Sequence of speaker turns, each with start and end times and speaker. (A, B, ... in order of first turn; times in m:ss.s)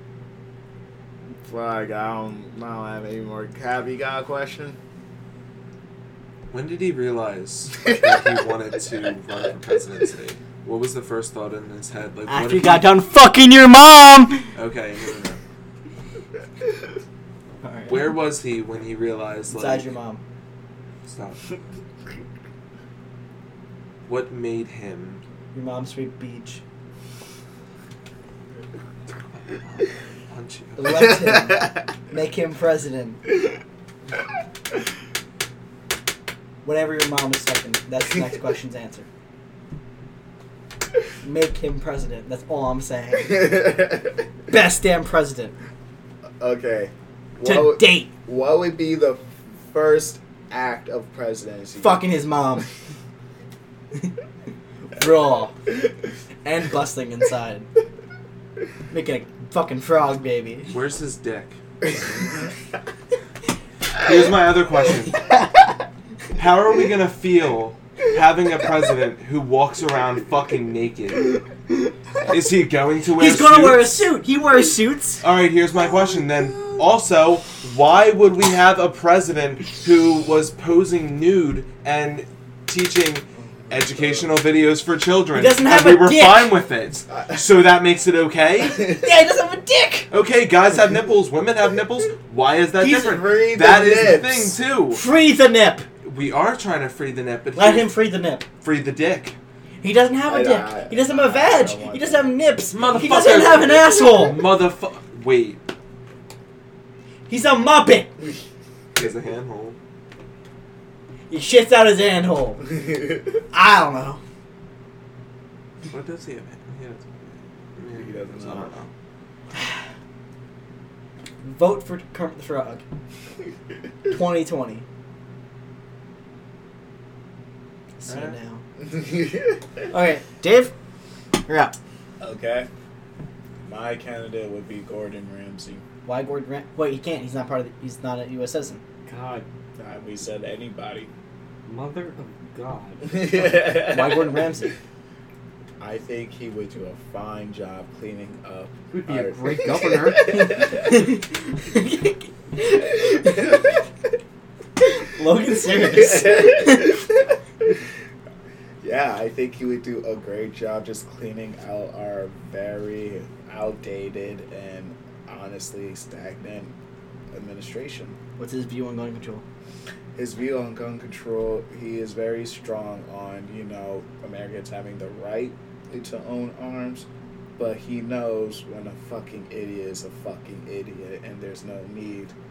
0:01.4-0:04.8 A
0:06.5-0:12.9 B
0:12.3-0:14.5 C
0:14.5-0:15.4 B
0:17.6-0:18.2 C
0:17.9-0:19.9 B
0:19.5-0:20.2 C
0:21.1-0:21.5 B
0:24.1-0:25.2 B
0:25.5-0:26.6 C
0:29.6-0:31.1 B
0:30.8-0:33.2 C
0:36.6-0:39.1 C
0:41.2-0:44.0 C
0:44.5-0:45.6 C
0:46.4-0:52.0 A
0:47.4-0:48.1 C
0:51.8-0:52.7 C
0:54.9-0:55.7 C
0:56.4-0:57.7 C
0:58.9-1:00.7 C
1:00.7-1:01.6 B
1:04.0-1:05.3 B
1:06.4-1:11.4 B
1:12.3-1:14.1 B
1:13.2-1:15.2 C
1:15.2-1:28.9 B
1:25.4-1:26.5 C
1:28.8-1:30.1 C
1:30.1-1:35.0 B
1:32.8-1:34.6 A
1:34.9-1:35.9 C
1:36.0-1:38.0 B
1:37.6-1:38.5 C
1:38.6-1:39.4 B
1:39.8-1:44.4 C
1:40.2-1:42.4 A
1:42.7-1:45.6 B
1:47.3-1:48.2 C
1:49.0-1:49.8 B
1:51.3-1:52.8 C
1:53.5-1:54.2 C
1:55.9-1:58.9 B
1:57.9-1:58.7 A
2:01.4-2:02.8 C
2:04.1-2:04.9 C
2:08.0-2:08.6 C
2:08.1-2:08.4 B
2:08.8-2:09.6 A
2:09.9-2:10.7 C
2:11.4-2:11.7 C
2:12.2-2:12.7 A
2:13.6-2:15.8 A
2:16.0-2:18.8 C
2:19.1-2:19.5 D
2:19.8-2:21.1 A
2:21.7-2:23.1 D
2:23.0-2:24.4 A
2:23.3-2:24.7 C
2:25.8-2:31.0 A
2:28.9-2:30.7 D
2:30.6-2:33.7 C
2:33.0-2:33.6 A
2:34.8-2:37.0 C
2:35.7-2:37.2 A
2:38.8-2:46.7 A
2:47.3-2:48.2 A
2:48.4-2:49.4 C
2:50.2-2:57.1 A
2:57.6-3:02.3 A